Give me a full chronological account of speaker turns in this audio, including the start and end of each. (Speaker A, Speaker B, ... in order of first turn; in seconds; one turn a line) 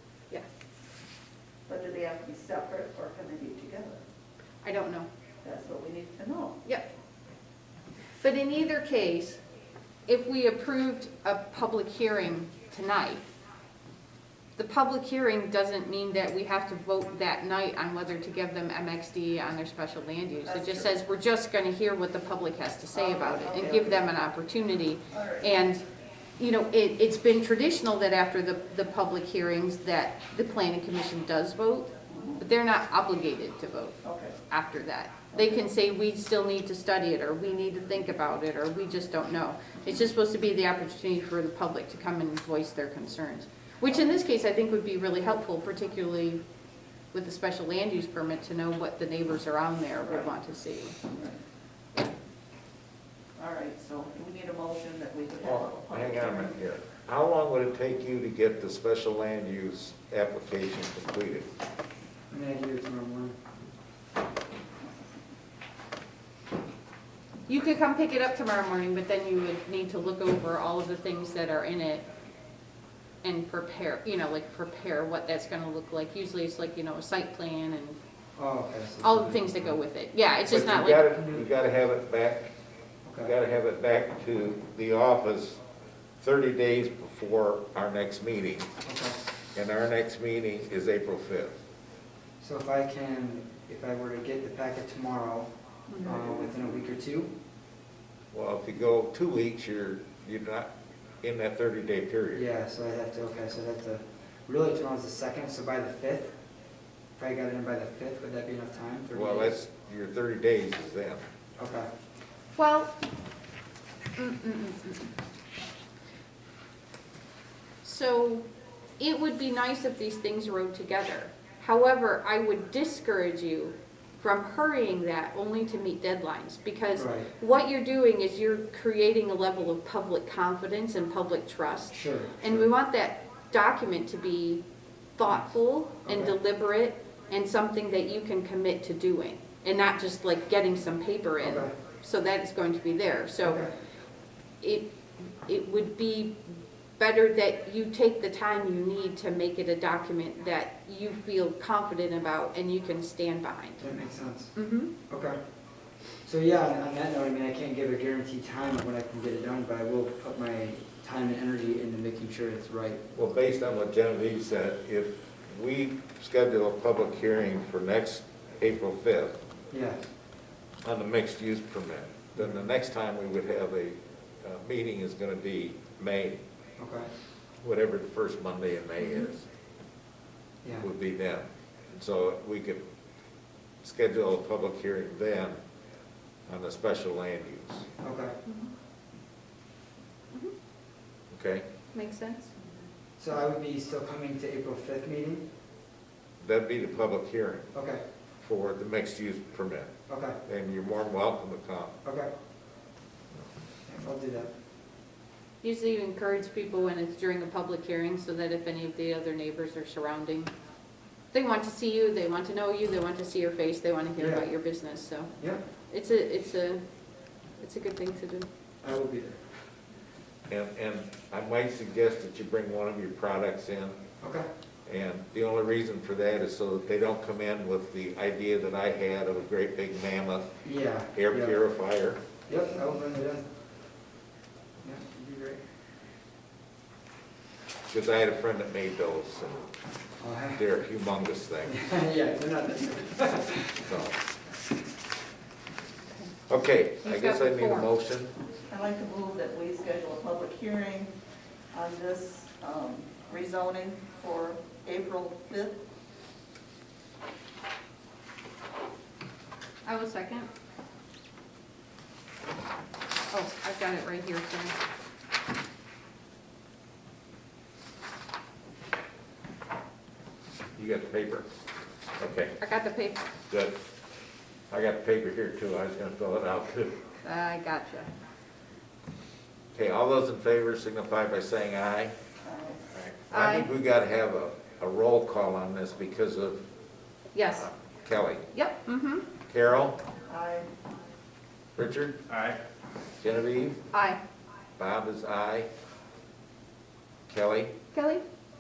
Speaker A: 1.7-4.0
Speaker B: 4.6-5.1
Speaker A: 5.4-6.6
Speaker B: 8.2-9.4
Speaker B: 10.1-13.2
Speaker B: 14.6-25.8
Speaker A: 20.4-20.9
Speaker C: 22.9-24.0
Speaker A: 25.1-25.7
Speaker B: 26.4-34.0
Speaker A: 32.1-32.4
Speaker A: 34.0-34.4
Speaker B: 34.5-46.4
Speaker A: 35.3-35.6
Speaker B: 47.1-51.0
Speaker A: 50.0-50.3
Speaker A: 51.0-51.4
Speaker A: 53.4-56.6
Speaker D: 55.4-61.5
Speaker C: 62.3-63.4
Speaker B: 67.5-72.0
Speaker B: 73.2-78.0
Speaker C: 78.3-79.8
Speaker B: 79.0-81.1
Speaker D: 80.5-82.5
Speaker C: 81.0-81.5
Speaker C: 83.0-83.3
Speaker D: 83.2-85.6
Speaker D: 86.2-88.7
Speaker C: 88.8-89.2
Speaker D: 89.5-91.6
Speaker C: 92.4-97.3
Speaker A: 95.9-96.6
Speaker D: 98.3-100.7
Speaker D: 101.2-102.5
Speaker C: 102.3-106.3
Speaker C: 107.2-109.6
Speaker D: 109.1-111.2
Speaker C: 111.6-111.9
Speaker B: 112.6-112.9
Speaker B: 114.2-115.1
Speaker B: 117.8-118.4
Speaker B: 119.0-134.6
Speaker C: 126.9-127.3
Speaker C: 131.9-132.7
Speaker B: 135.2-143.6
Speaker C: 136.0-136.3
Speaker C: 141.4-141.7
Speaker C: 143.4-143.7
Speaker B: 144.6-144.9
Speaker B: 145.4-146.4
Speaker B: 147.0-153.9
Speaker C: 153.8-154.5
Speaker B: 154.6-154.9
Speaker C: 155.1-155.4
Speaker C: 156.2-163.0
Speaker D: 163.1-169.4
Speaker C: 169.7-170.0
Speaker D: 170.8-176.4
Speaker C: 172.3-172.6
Speaker C: 176.8-177.1
Speaker D: 177.6-179.5
Speaker D: 180.8-182.8
Speaker D: 183.8-185.6
Speaker D: 186.5-187.9
Speaker C: 188.0-188.4
Speaker B: 188.4-188.7
Speaker D: 191.3-191.6
Speaker B: 191.9-192.7
Speaker C: 193.2-195.4
Speaker D: 196.4-197.7
Speaker C: 197.7-198.0
Speaker D: 198.4-199.9
Speaker C: 200.1-200.4
Speaker D: 200.4-202.0
Speaker C: 202.0-202.3
Speaker C: 203.9-204.5
Speaker B: 205.6-210.5
Speaker B: 211.3-215.3
Speaker C: 214.2-214.5
Speaker B: 215.9-216.8
Speaker B: 217.6-218.5
Speaker C: 218.8-219.4
Speaker D: 220.5-224.0
Speaker C: 224.2-224.4
Speaker D: 224.8-230.5
Speaker C: 230.6-231.6
Speaker D: 231.1-232.2
Speaker C: 232.5-233.5
Speaker C: 234.8-235.6
Speaker D: 237.9-239.7
Speaker C: 240.2-240.6
Speaker D: 240.6-241.8
Speaker C: 241.6-243.9
Speaker D: 243.8-244.2
Speaker D: 246.5-248.3
Speaker B: 247.0-247.9
Speaker A: 248.7-251.1
Speaker A: 251.7-255.8
Speaker B: 259.8-260.5
Speaker B: 263.3-264.7
Speaker D: 270.8-271.5
Speaker D: 272.2-272.6
Speaker B: 272.6-273.3
Speaker D: 273.5-273.8
Speaker D: 274.7-277.0
Speaker B: 277.2-278.1
Speaker D: 279.7-282.1
Speaker A: 282.4-282.8
Speaker D: 282.9-286.6
Speaker B: 283.3-283.7
Speaker B: 287.3-287.7
Speaker D: 287.6-288.5
Speaker B: 288.5-289.2
Speaker D: 289.5-290.0
Speaker A: 290.3-290.7
Speaker D: 291.8-292.6
Speaker D: 293.2-293.8
Speaker B: 293.9-294.2
Speaker D: 294.8-295.7
Speaker D: 297.3-297.7
Speaker B: 297.9-298.2